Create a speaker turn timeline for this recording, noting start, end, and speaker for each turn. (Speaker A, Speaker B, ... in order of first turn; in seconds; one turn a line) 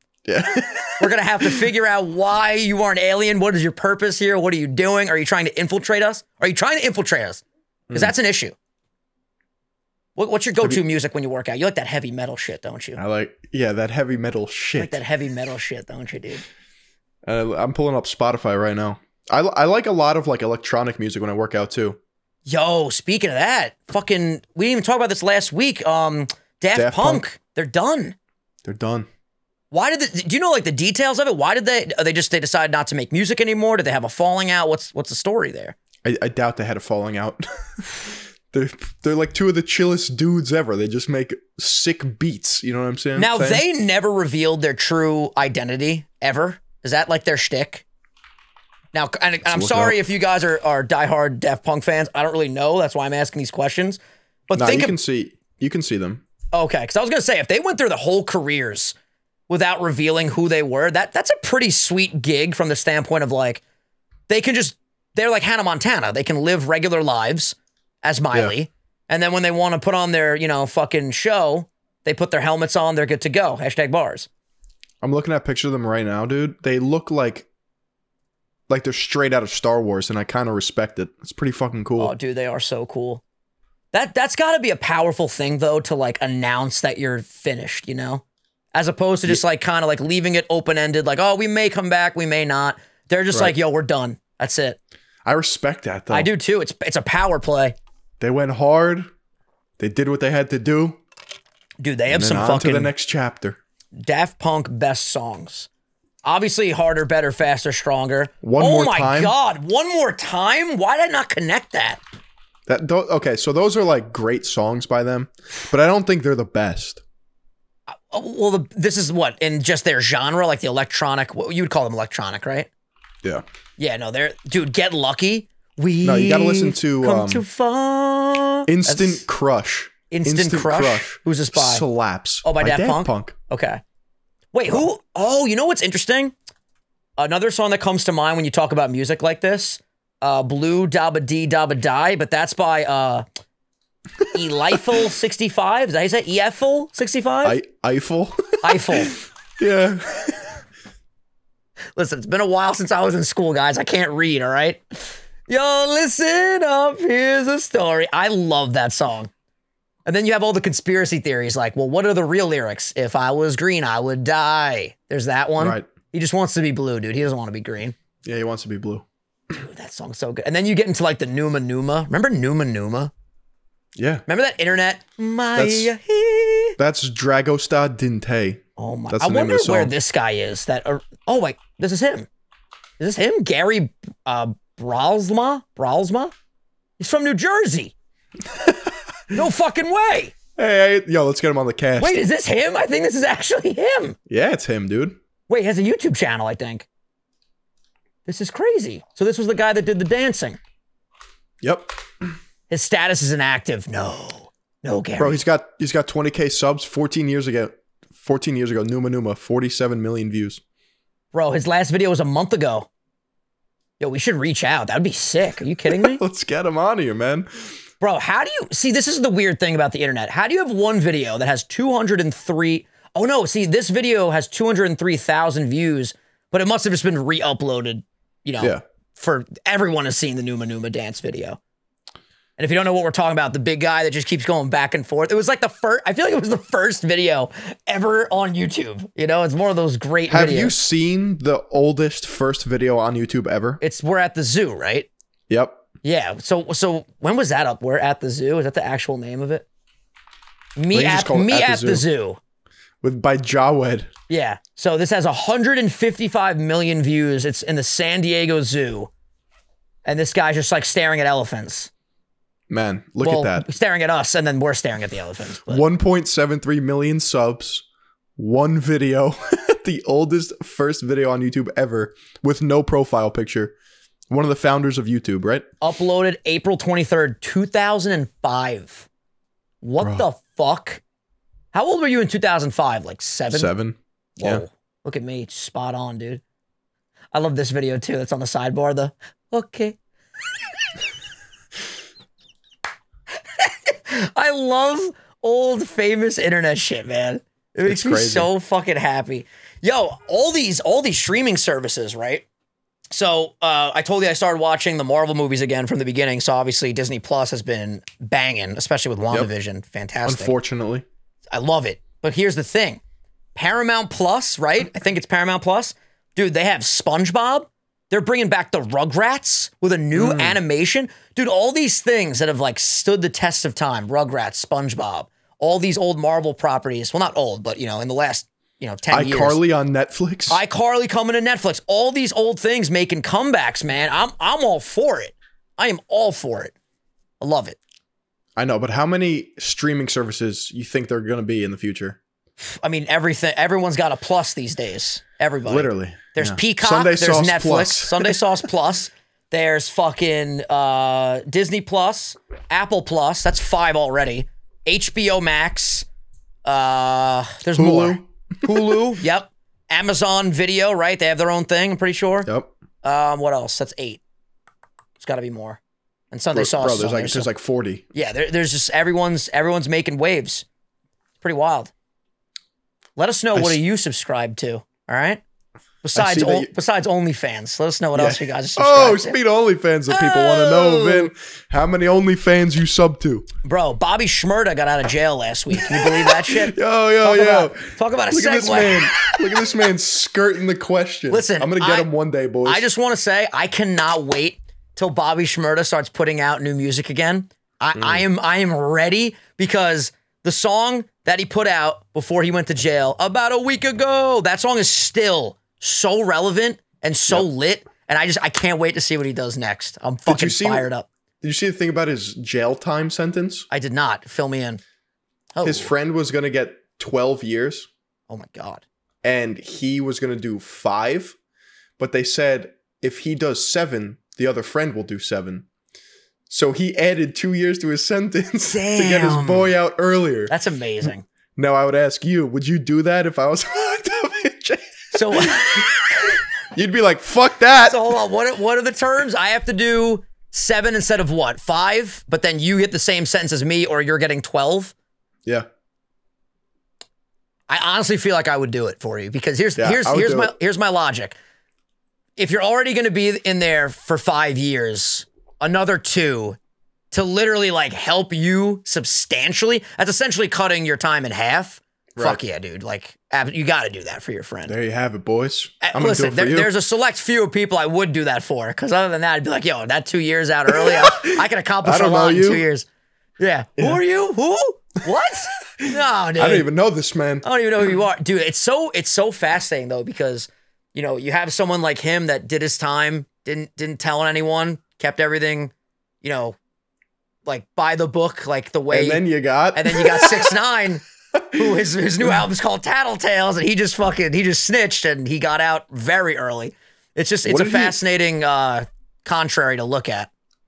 Speaker A: 0.2-1.7
Speaker B: 1.0-8.5
Speaker A: 7.9-8.1
Speaker B: 10.2-13.0
Speaker A: 13.0-15.0
Speaker B: 14.8-16.4
Speaker A: 17.2-22.0
Speaker B: 22.4-28.1
Speaker A: 26.7-27.2
Speaker A: 28.6-29.1
Speaker B: 29.7-35.8
Speaker A: 36.0-43.6
Speaker B: 43.1-47.9
Speaker B: 48.9-54.9
Speaker A: 49.4-50.0
Speaker A: 54.5-56.2
Speaker B: 56.5-58.9
Speaker B: 59.5-63.6
Speaker B: 64.3-74.3
Speaker A: 75.0-77.5
Speaker A: 78.7-82.1
Speaker B: 82.0-83.2
Speaker B: 83.9-88.2
Speaker B: 88.7-94.8
Speaker A: 95.2-96.3
Speaker B: 96.1-97.8
Speaker A: 98.2-99.1
Speaker A: 99.8-101.0
Speaker B: 101.8-102.9
Speaker A: 102.1-103.6
Speaker B: 104.0-105.7
Speaker B: 106.2-112.0
Speaker A: 108.4-109.3
Speaker A: 112.7-117.0
Speaker B: 117.9-122.7
Speaker B: 123.8-129.2
Speaker A: 126.0-127.4
Speaker A: 128.7-133.3
Speaker B: 130.1-131.8
Speaker B: 132.4-133.8
Speaker B: 134.5-136.3
Speaker B: 137.2-143.2
Speaker B: 144.3-147.6
Speaker A: 147.4-150.6
Speaker B: 148.6-149.2
Speaker B: 151.9-159.3
Speaker B: 160.1-167.9
Speaker A: 165.6-165.9
Speaker A: 168.2-169.0
Speaker B: 169.5-173.1
Speaker A: 173.9-174.2
Speaker B: 174.3-176.8
Speaker A: 175.6-175.9
Speaker A: 176.8-179.9
Speaker B: 178.8-182.3
Speaker B: 183.0-186.3
Speaker B: 187.0-187.9
Speaker A: 188.5-188.9
Speaker B: 189.3-190.3
Speaker A: 190.6-192.2
Speaker B: 192.0-194.2
Speaker A: 194.3-195.2
Speaker B: 195.5-196.9
Speaker B: 198.2-200.6
Speaker A: 201.6-201.9
Speaker B: 202.7-205.4
Speaker A: 205.2-210.6
Speaker B: 211.3-212.9
Speaker B: 214.0-216.2
Speaker A: 215.9-217.5
Speaker B: 218.0-231.6
Speaker B: 232.6-240.7
Speaker A: 240.3-243.8
Speaker B: 243.8-245.1
Speaker A: 245.5-245.8
Speaker B: 246.0-249.7
Speaker B: 250.8-252.4
Speaker A: 250.9-252.0
Speaker A: 253.0-254.1
Speaker B: 254.3-259.1
Speaker B: 260.0-261.9
Speaker A: 262.7-263.7
Speaker B: 263.2-265.9
Speaker A: 265.7-267.9
Speaker A: 268.4-273.7
Speaker A: 274.3-275.7
Speaker B: 275.8-279.1
Speaker B: 279.8-281.0
Speaker A: 280.0-280.2
Speaker B: 281.7-283.7
Speaker A: 283.5-284.6
Speaker B: 284.4-286.4
Speaker B: 287.3-290.0
Speaker B: 293.6-302.4
Speaker A: 297.9-298.5
Speaker B: 303.1-310.5
Speaker A: 310.2-311.0
Speaker B: 311.5-313.0
Speaker B: 313.5-329.6
Speaker A: 320.1-320.6
Speaker A: 329.1-330.6
Speaker B: 330.5-336.7
Speaker B: 337.4-337.8
Speaker A: 338.6-342.2
Speaker B: 342.6-356.1
Speaker A: 345.7-348.4
Speaker B: 356.6-362.5
Speaker A: 357.7-359.1
Speaker A: 362.4-362.7
Speaker B: 363.0-364.2
Speaker B: 365.2-365.8
Speaker B: 366.3-367.5
Speaker A: 366.5-368.1
Speaker B: 368.1-370.6
Speaker B: 371.4-371.9
Speaker B: 373.1-375.4
Speaker B: 376.0-379.4
Speaker A: 376.1-376.7
Speaker A: 378.1-383.5
Speaker B: 380.1-381.3
Speaker B: 383.6-389.4
Speaker A: 385.7-392.9
Speaker B: 391.3-392.1
Speaker B: 392.6-411.1
Speaker A: 398.0-398.2
Speaker A: 410.3-410.9
Speaker A: 411.4-413.7
Speaker B: 413.7-414.8
Speaker B: 415.5-415.9
Speaker A: 415.6-417.9
Speaker B: 418.3-418.8
Speaker A: 419.2-421.4
Speaker A: 422.0-425.6
Speaker A: 426.5-430.5
Speaker B: 428.7-429.7
Speaker B: 430.5-431.2
Speaker A: 431.0-438.1
Speaker B: 435.1-436.1
Speaker B: 437.9-444.9
Speaker B: 447.7-451.4
Speaker A: 449.8-450.5
Speaker B: 452.4-456.6
Speaker B: 457.1-464.7
Speaker A: 462.1-462.4
Speaker A: 464.7-466.7
Speaker B: 465.8-472.9
Speaker A: 470.7-472.6
Speaker B: 473.4-476.7
Speaker A: 475.8-477.4
Speaker B: 477.4-486.6
Speaker B: 487.4-489.2
Speaker A: 488.9-490.5
Speaker B: 489.7-500.3
Speaker A: 491.3-492.4
Speaker A: 497.4-498.0